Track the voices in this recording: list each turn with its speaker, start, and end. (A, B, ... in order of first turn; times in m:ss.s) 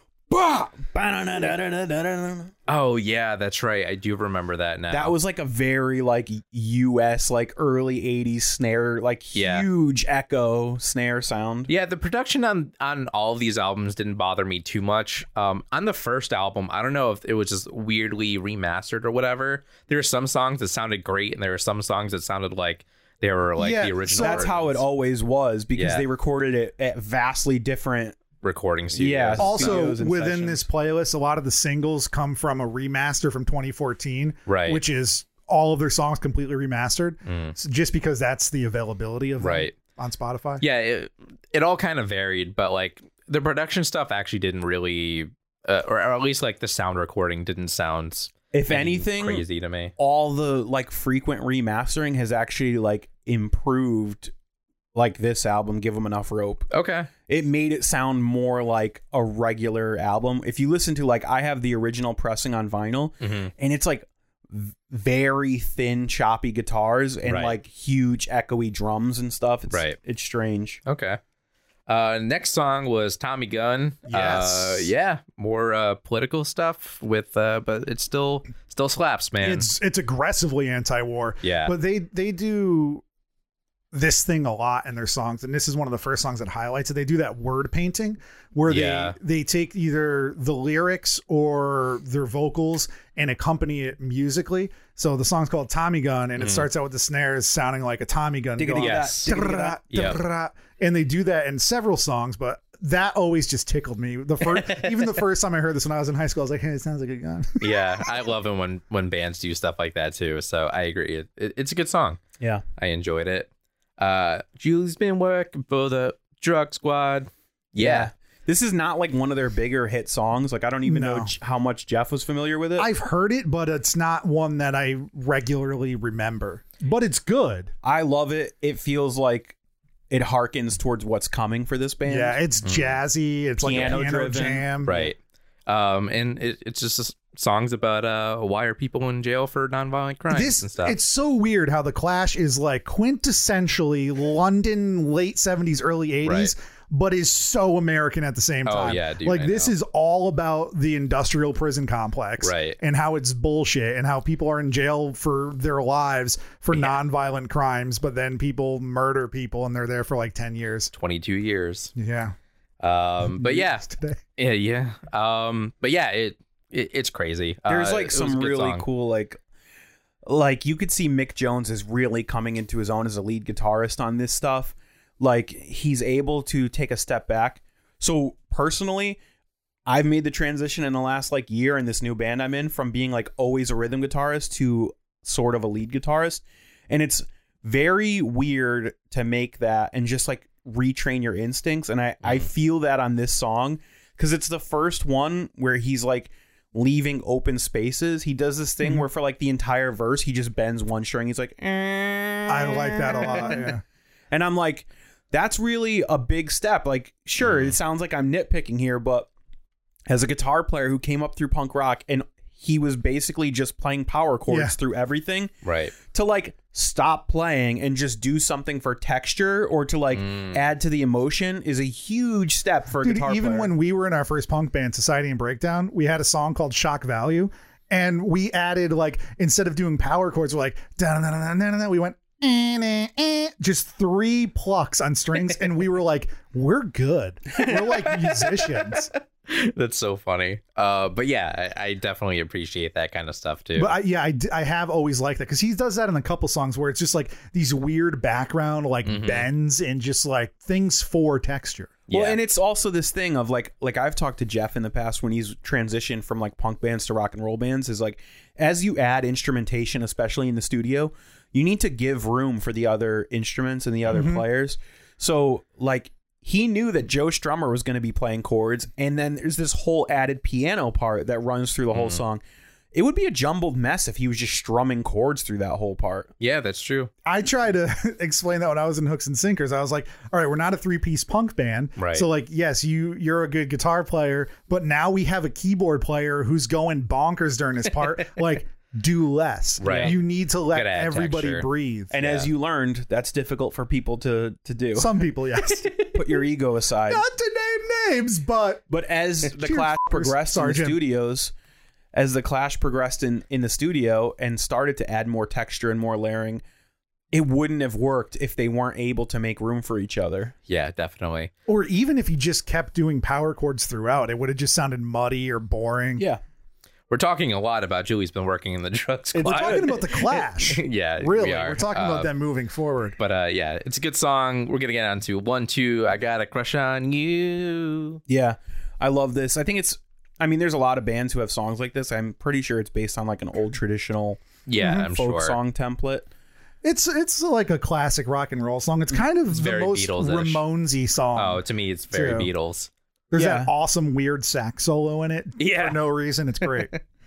0:00.3-0:02.5 A
0:02.7-0:05.2 B
0:04.9-0:11.7 A
0:09.4-0:09.7 B
0:11.7-0:24.8 B
0:23.6-0:24.5 C
0:24.1-0:28.2 A
0:25.8-0:26.0 B
0:28.4-0:29.8 B
0:29.0-0:30.6 A
0:29.4-0:40.6 C
0:34.5-0:34.8 B
0:37.3-0:37.6 B
0:39.4-0:39.7 B
0:40.6-0:49.9 B
0:48.5-0:49.4 A
0:50.0-0:54.3 A
0:55.0-0:56.7 A
0:56.7-0:57.1 B
0:57.3-1:10.8 A
1:03.2-1:03.5 B
1:07.3-1:07.6 B
1:09.7-1:10.0 B
1:10.9-1:11.2 B
1:11.9-1:19.7 B
1:14.1-1:14.9 C
1:19.4-1:23.0 C
1:21.4-1:21.7 B
1:23.9-1:48.1 C
1:28.7-1:29.2 B
1:36.4-1:36.7 B
1:38.6-1:39.8 A
1:38.8-1:39.3 B
1:39.9-1:40.2 B
1:44.5-1:45.0 B
1:47.6-1:52.2 B
1:52.8-1:58.1 B
1:57.8-2:02.9 A
2:00.9-2:01.3 C
2:02.8-2:07.7 C
2:07.8-2:09.6 A
2:10.1-2:12.4 A
2:12.1-2:15.0 C
2:12.6-2:13.0 B
2:13.6-2:15.1 A
2:13.7-2:14.0 B
2:14.8-2:21.0 B
2:20.3-2:40.9 C
2:26.2-2:26.5 B
2:28.7-2:29.7 B
2:32.4-2:32.8 B
2:40.9-2:41.9 B
2:42.0-2:42.4 C
2:42.8-2:43.8 B
2:43.2-2:44.2 C
2:44.4-2:48.8 B
2:47.7-2:49.4 A
2:50.3-2:59.2 A
2:59.9-3:23.7 A
3:22.5-3:23.8 C
3:24.3-3:29.3 A
3:27.4-3:27.8 B
3:30.1-3:43.7 A
3:34.5-3:34.8 C
3:35.6-3:36.0 B
3:40.2-3:40.6 B
3:43.0-3:59.1 C
3:57.6-4:03.9 B
4:03.8-4:11.9 C
4:09.1-4:09.5 B
4:12.1-4:12.4 B
4:12.1-4:32.4 A
4:24.1-4:24.4 C
4:31.9-4:32.2 B
4:32.9-4:36.3 A
4:36.4-4:37.1 B
4:37.3-4:52.2 C
4:42.0-4:42.3 B
4:49.8-4:50.2 B
4:49.8-4:50.2 A
4:50.7-4:51.7 B
4:52.1-4:55.1 A
4:52.2-4:52.5 B
4:55.0-4:55.9 C
4:56.0-4:57.2 A
4:57.1-4:58.9 C
4:58.9-5:01.5 A
4:59.4-5:01.0 C
5:02.1-5:06.6 A
5:07.3-5:10.5 A
5:10.7-5:11.5 B
5:11.7-5:16.2 C
5:17.1-5:22.3 B
5:19.4-5:23.2 C
5:19.5-5:19.9 A
5:23.2-5:28.2 B
5:28.3-5:36.3 A
5:34.7-5:35.6 B
5:34.8-5:35.1 C
5:36.8-5:42.5 C
5:39.5-5:40.6 B
5:41.4-5:42.9 B
5:43.3-5:46.9 C
5:43.4-5:43.7 A
5:45.6-5:46.0 B
5:46.7-5:47.0 B